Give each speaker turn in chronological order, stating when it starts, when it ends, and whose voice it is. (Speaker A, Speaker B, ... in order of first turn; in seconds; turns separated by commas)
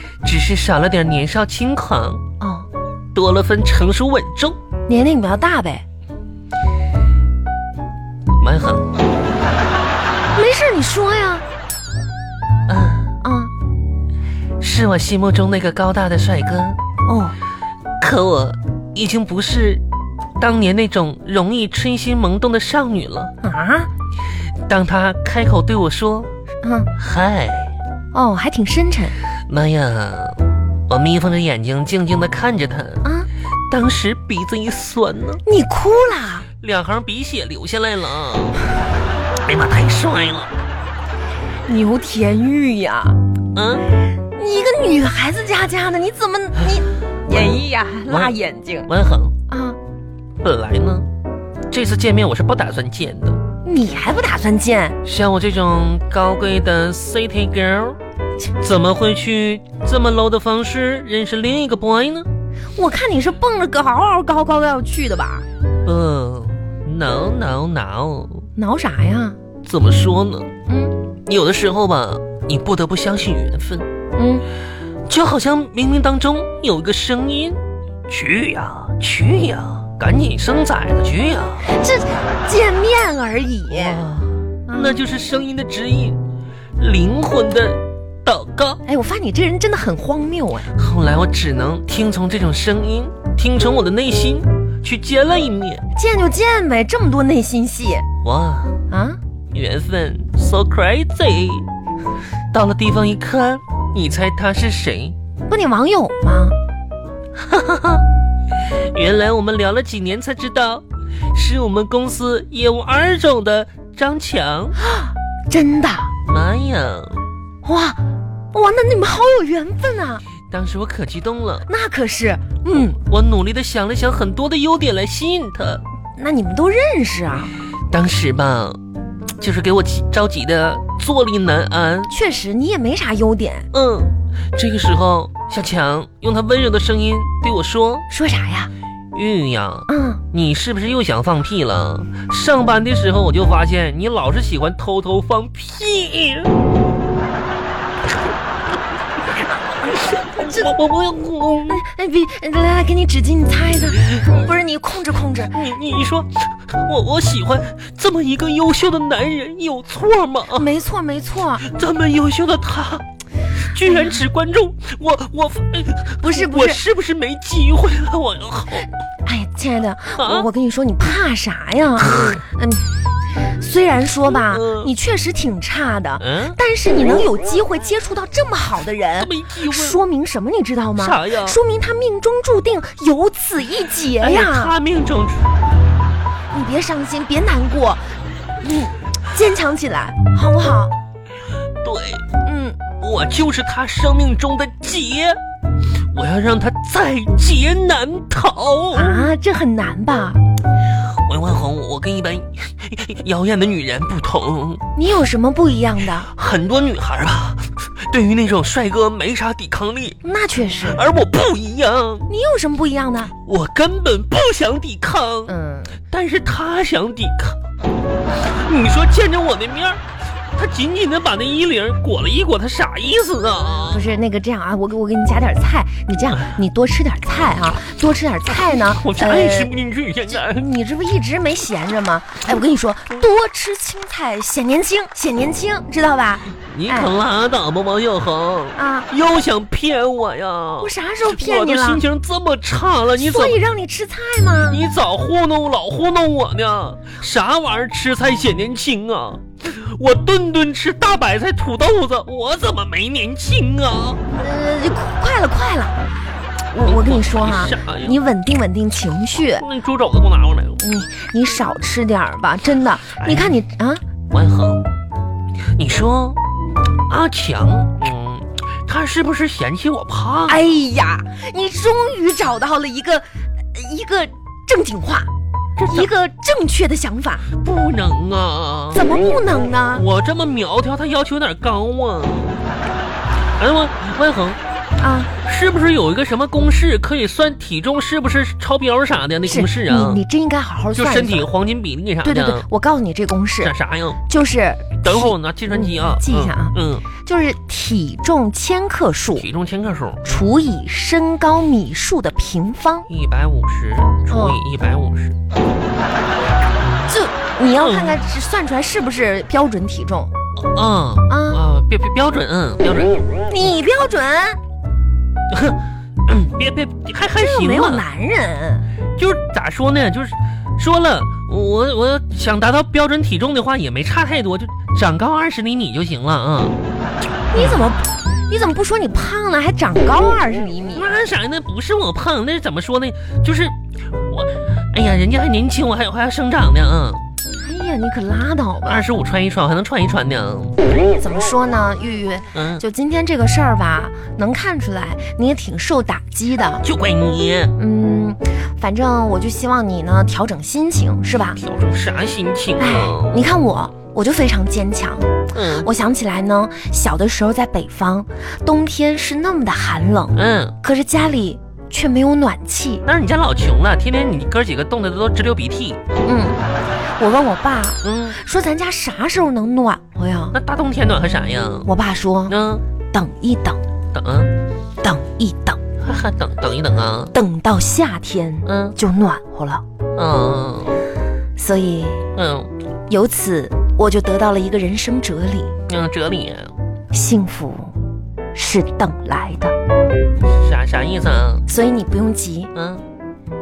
Speaker A: 0.2-2.2, Speaker B: 2.4-2.7, Speaker A: 3.1-4.6, Speaker B: 4.9-5.8, Speaker A: 8.4-8.9, Speaker B: 10.3-11.4, Speaker A: 12.7-13.2, Speaker B: 13.2-13.5, Speaker A: 14.6-16.8, Speaker B: 17.1-17.4, Speaker A: 18.0-19.8, Speaker A: 20.4-23.3, Speaker B: 23.4-23.9, Speaker A: 24.6-26.3, Speaker B: 26.6-26.9, Speaker A: 27.0-27.8, Speaker B: 28.1-29.2, Speaker A: 29.5-33.0, Speaker A: 33.7-35.4, Speaker B: 35.5-36.5, Speaker A: 36.6-38.7, Speaker A: 39.4-40.5, Speaker B: 41.7-43.2, Speaker A: 43.5-43.9, Speaker B: 44.1-48.9, Speaker A: 47.3-48.4, Speaker A: 48.9-49.3, Speaker B: 49.5-49.8, Speaker A: 50.4-51.1, Speaker A: 51.7-53.4, Speaker B: 53.6-55.0, Speaker A: 55.0-58.0, Speaker A: 58.6-62.3, Speaker B: 62.8-65.5, Speaker A: 65.8-68.5, Speaker B: 68.6-69.4, Speaker A: 69.6-70.5, Speaker B: 70.7-71.0, Speaker A: 71.3-73.9, Speaker B: 74.2-74.5, Speaker A: 75.1-81.7, Speaker B: 81.7-84.0, Speaker A: 83.7-86.2, Speaker B: 84.7-85.0, Speaker A: 86.8-88.8, Speaker B: 88.9-90.7, Speaker A: 90.7-95.8, Speaker B: 95.9-98.0, Speaker A: 98.2-98.8, Speaker B: 98.9-99.2, Speaker A: 99.5-101.7, Speaker A: 102.5-105.2, Speaker B: 105.5-106.6, Speaker A: 107.4-108.0, Speaker A: 108.7-114.8, Speaker B: 114.8-116.1, Speaker A: 116.2-117.2, Speaker B: 117.6-118.0, Speaker B: 118.5-120.2, Speaker A: 120.5-121.7, Speaker B: 121.7-123.0, Speaker A: 122.9-125.8, Speaker B: 126.2-127.5, Speaker A: 127.9-128.8, Speaker A: 129.4-132.1, Speaker B: 132.1-133.7, Speaker A: 133.7-138.1, Speaker B: 138.1-138.7, Speaker A: 139.1-146.6, Speaker B: 139.9-140.2, Speaker A: 149.8-151.8, Speaker B: 151.7-155.5, Speaker A: 155.5-160.7, Speaker B: 160.5-161.6, Speaker A: 161.6-163.1, Speaker A: 163.6-168.9, Speaker B: 163.8-164.2, Speaker B: 166.2-166.8, Speaker B: 169.2-184.7, Speaker A: 170.2-170.5, Speaker A: 172.0-172.4, Speaker A: 174.5-174.9, Speaker A: 176.2-176.6, Speaker A: 179.2-180.0, Speaker A: 181.0-181.6, Speaker A: 184.2-185.5, Speaker B: 186.5-190.9, Speaker A: 191.8-192.3, Speaker B: 192.4-192.8, Speaker A: 193.0-195.4, Speaker A: 196.1-199.2, Speaker B: 198.9-200.4, Speaker A: 201.0-204.8, Speaker B: 204.9-206.3, Speaker A: 206.2-210.2, Speaker B: 210.2-211.0, Speaker A: 210.8-212.3, Speaker B: 212.3-213.3, Speaker A: 213.4-215.5, Speaker B: 215.5-216.0, Speaker A: 216.1-217.6, Speaker A: 218.4-220.0, Speaker A: 220.6-224.1, Speaker B: 223.9-229.7, Speaker A: 226.3-226.6, Speaker A: 228.5-230.7, Speaker B: 230.3-237.1, Speaker A: 236.6-243.6, Speaker B: 238.8-239.1, Speaker B: 240.8-242.0, Speaker B: 243.2-244.8, Speaker A: 244.7-254.2, Speaker B: 254.3-256.1, Speaker B: 256.7-259.7, Speaker A: 256.8-258.1, Speaker A: 259.6-260.8, Speaker B: 260.8-264.0, Speaker A: 263.2-263.6, Speaker A: 264.3-264.9, Speaker A: 265.7-266.4, Speaker A: 267.1-270.7, Speaker B: 270.5-275.3, Speaker A: 275.8-276.1, Speaker B: 275.9-277.5, Speaker A: 277.5-279.1, Speaker B: 278.9-280.1, Speaker A: 279.9-282.6, Speaker A: 283.6-284.6, Speaker B: 285.0-285.3, Speaker A: 285.4-290.2, Speaker B: 289.5-291.5, Speaker A: 291.0-292.7, Speaker B: 292.2-293.7, Speaker A: 293.6-294.2, Speaker B: 294.3-299.5, Speaker A: 295.0-297.1, Speaker A: 299.4-300.5, Speaker B: 300.2-303.1, Speaker A: 303.1-305.4, Speaker B: 304.3-304.6, Speaker A: 306.8-307.1, Speaker B: 307.1-310.3, Speaker A: 307.8-308.2, Speaker A: 310.6-313.2, Speaker B: 311.3-311.6, Speaker B: 313.5-314.6, Speaker A: 315.5-318.0, Speaker B: 317.4-318.9, Speaker A: 319.2-326.8, Speaker B: 327.5-331.1, Speaker A: 327.5-327.8, Speaker A: 330.9-337.2, Speaker B: 337.6-339.1, Speaker A: 338.9-340.8, Speaker B: 341.2-346.8, Speaker A: 342.5-342.8, Speaker A: 346.8-347.8, Speaker B: 347.8-351.6, Speaker A: 351.6-353.4, Speaker B: 352.8-363.0, Speaker A: 355.5-355.9, Speaker A: 360.4-360.8, Speaker A: 363.0-366.0, Speaker B: 366.2-366.6, Speaker B: 367.2-370.6, Speaker A: 368.0-368.4, Speaker A: 370.5-371.9, Speaker B: 371.9-372.6, Speaker A: 372.5-372.8, Speaker B: 373.1-373.8, Speaker A: 374.1-374.5, Speaker B: 375.0-375.8, Speaker A: 376.0-377.3, Speaker B: 377.3-379.8, Speaker A: 378.7-379.0, Speaker A: 380.2-381.0, Speaker B: 381.6-382.3, Speaker A: 382.4-382.7, Speaker B: 383.1-385.7, Speaker A: 385.9-386.7, Speaker B: 387.1-387.9, Speaker B: 388.5-389.7, Speaker A: 390.5-391.7, Speaker B: 391.7-392.7, Speaker A: 392.8-393.1